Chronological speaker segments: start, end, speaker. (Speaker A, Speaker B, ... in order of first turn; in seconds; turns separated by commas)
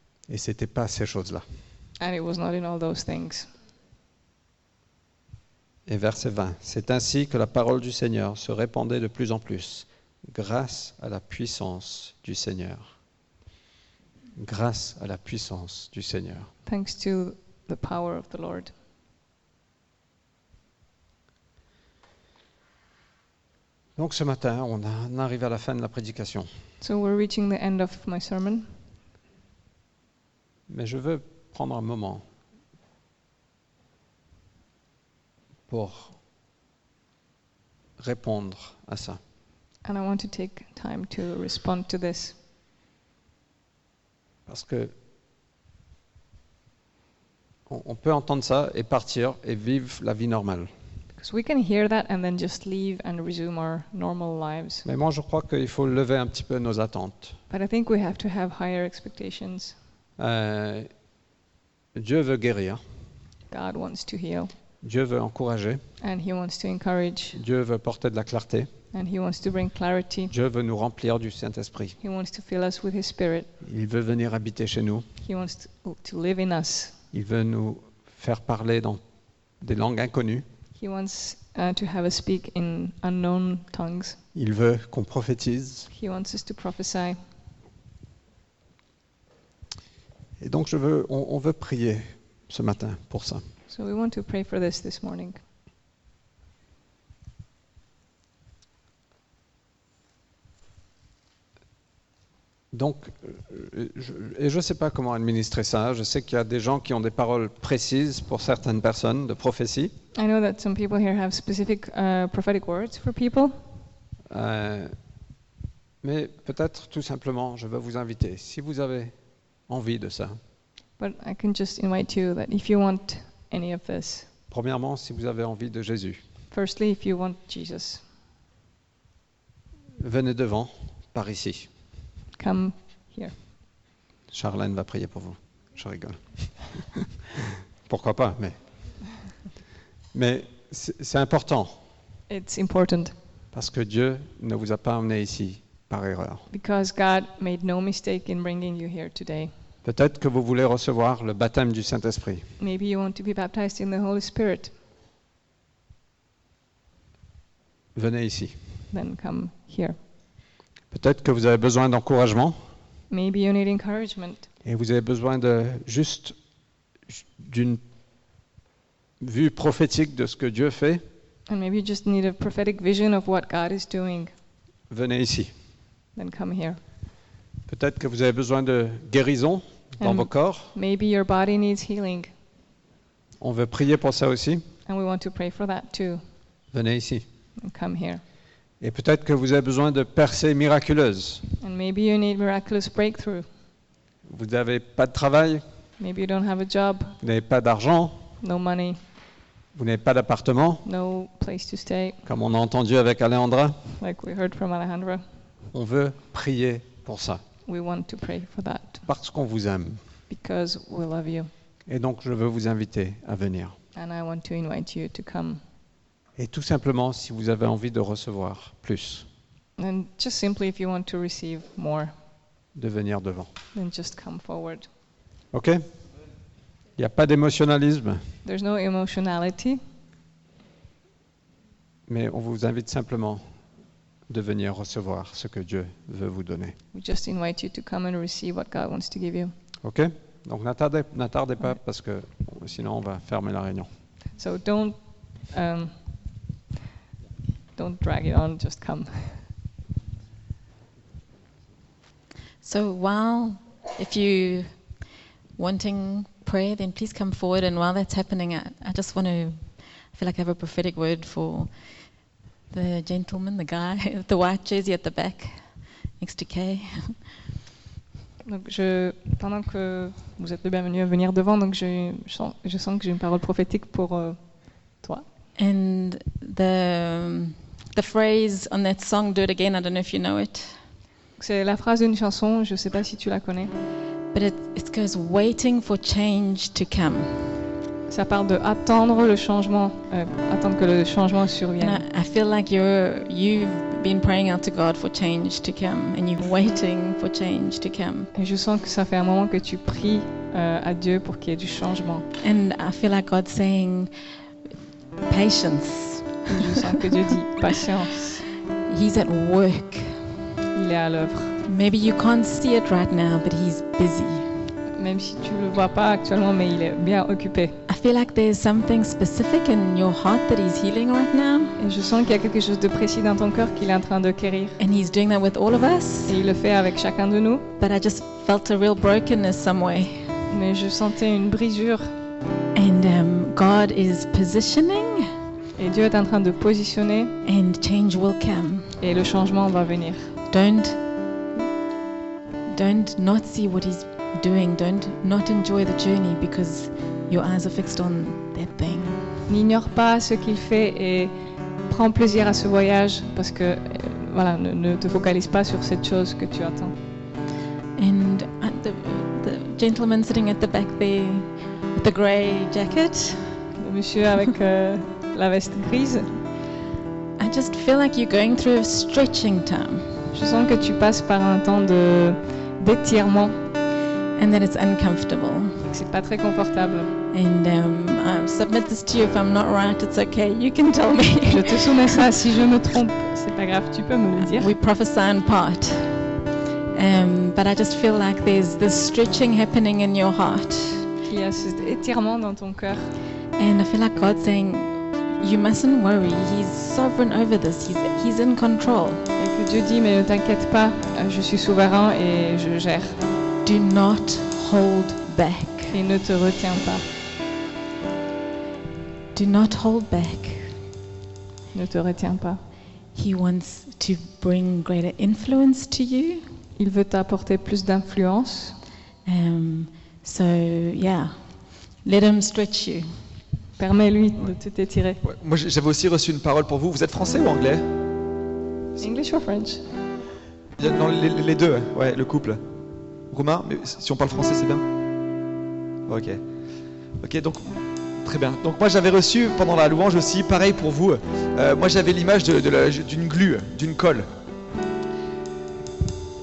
Speaker A: 0.3-1.4, Speaker B: 2.0-3.5, Speaker A: 5.9-12.9, Speaker A: 14.4-16.5, Speaker B: 16.7-18.7, Speaker A: 24.0-26.5, Speaker B: 26.8-28.7, Speaker A: 30.7-32.2, Speaker A: 35.7-36.2, Speaker A: 38.0-39.2, Speaker B: 39.8-42.4, Speaker A: 44.5-44.9, Speaker A: 47.7-50.7, Speaker B: 51.2-54.9, Speaker A: 54.9-57.4, Speaker B: 57.5-59.8, Speaker A: 60.2-60.9, Speaker A: 62.0-62.8, Speaker B: 63.5-64.5, Speaker A: 64.8-65.8, Speaker B: 66.0-67.4, Speaker A: 67.3-68.7, Speaker B: 68.9-70.3, Speaker A: 70.3-72.0, Speaker B: 72.0-73.5, Speaker A: 73.6-75.1, Speaker B: 75.2-77.0, Speaker A: 77.1-79.0, Speaker A: 79.6-80.5, Speaker B: 80.8-84.2, Speaker A: 84.3-85.9, Speaker B: 85.9-87.2, Speaker A: 90.4-93.4, Speaker B: 93.7-95.4, Speaker A: 102.7-109.9, Speaker B: 110.1-113.6, Speaker A: 114.3-114.9, Speaker A: 116.0-119.1, Speaker A: 119.7-120.4, Speaker B: 121.0-124.3, Speaker A: 124.5-126.2, Speaker B: 126.5-128.0, Speaker A: 130.0-131.7, Speaker B: 132.4-133.4, Speaker A: 134.3-138.6, Speaker A: 140.1-141.8, Speaker B: 142.3-143.2, Speaker A: 143.5-146.5, Speaker B: 146.5-149.5, Speaker A: 149.8-152.4, Speaker B: 152.6-154.7, Speaker A: 157.9-158.6, Speaker B: 158.9-160.0, Speaker A: 160.9-162.6, Speaker B: 163.1-164.5, Speaker A: 164.7-166.3, Speaker A: 167.1-167.8, Speaker A: 169.2-171.0, Speaker B: 171.5-174.3, Speaker A: 174.9-175.5, Speaker B: 176.2-176.8, Speaker A: 177.7-180.7, Speaker B: 180.0-182.3, Speaker A: 183.4-184.7, Speaker B: 184.9-186.2, Speaker A: 186.7-187.2, Speaker B: 187.6-188.2, Speaker A: 188.8-191.4, Speaker B: 191.6-193.5, Speaker A: 194.3-195.6, Speaker B: 196.0-197.2, Speaker A: 197.2-198.3, Speaker B: 198.4-199.0, Speaker A: 199.8-200.8, Speaker B: 200.8-202.2, Speaker A: 202.3-203.8, Speaker B: 204.0-205.2, Speaker A: 205.7-207.4, Speaker B: 207.7-209.1, Speaker A: 209.1-210.0, Speaker B: 210.3-211.5, Speaker A: 211.9-213.8, Speaker B: 213.9-215.6, Speaker A: 216.4-219.3, Speaker B: 219.8-222.1, Speaker A: 222.8-223.5, Speaker B: 223.7-224.9, Speaker A: 225.5-225.8, Speaker A: 227.0-228.2, Speaker B: 228.4-229.8, Speaker A: 232.1-233.4, Speaker A: 234.3-236.8, Speaker B: 236.9-239.5, Speaker A: 239.8-243.9, Speaker B: 244.4-246.0, Speaker B: 247.8-249.5, Speaker C: 252.6-254.7, Speaker C: 255.6-261.7, Speaker C: 262.7-265.6, Speaker C: 266.2-267.2, Speaker B: 268.4-274.4, Speaker B: 274.9-275.2, Speaker C: 275.6-280.8, Speaker B: 281.4-283.7, Speaker C: 284.3-287.5, Speaker B: 288.1-292.0, Speaker C: 291.8-298.3, Speaker B: 298.3-302.3, Speaker C: 302.4-304.1, Speaker C: 305.3-306.7, Speaker B: 306.5-308.4, Speaker C: 308.9-310.1, Speaker B: 310.7-311.6, Speaker C: 311.7-314.4, Speaker B: 315.0-317.8, Speaker C: 317.9-321.8, Speaker B: 321.8-324.8, Speaker C: 324.8-326.4, Speaker B: 326.3-327.7, Speaker C: 327.8-330.3, Speaker B: 330.5-332.1, Speaker C: 332.7-335.2, Speaker B: 335.8-337.4, Speaker C: 337.4-338.9, Speaker B: 339.0-340.3, Speaker C: 340.5-341.0, Speaker C: 342.7-349.2, Speaker B: 349.5-351.3, Speaker B: 351.9-357.0, Speaker C: 358.0-363.5, Speaker B: 363.8-366.4, Speaker C: 367.4-370.1, Speaker B: 370.3-373.6, Speaker C: 374.4-375.7, Speaker B: 375.9-377.1, Speaker C: 377.3-382.3, Speaker B: 381.5-384.7, Speaker C: 384.4-386.1, Speaker C: 386.9-391.0, Speaker B: 391.3-393.1, Speaker C: 393.6-399.2, Speaker B: 399.4-403.2, Speaker C: 403.6-406.0, Speaker B: 405.9-407.1, Speaker C: 409.4-410.7, Speaker B: 411.7-412.6, Speaker C: 413.1-416.4, Speaker B: 416.8-418.8, Speaker C: 419.2-421.3, Speaker C: 422.0-423.1, Speaker B: 423.8-425.2, Speaker D: 425.2-427.9, Speaker B: 429.0-429.9, Speaker D: 430.8-432.6, Speaker D: 433.3-434.8, Speaker D: 436.1-436.4, Speaker D: 437.2-437.7, Speaker D: 438.2-444.3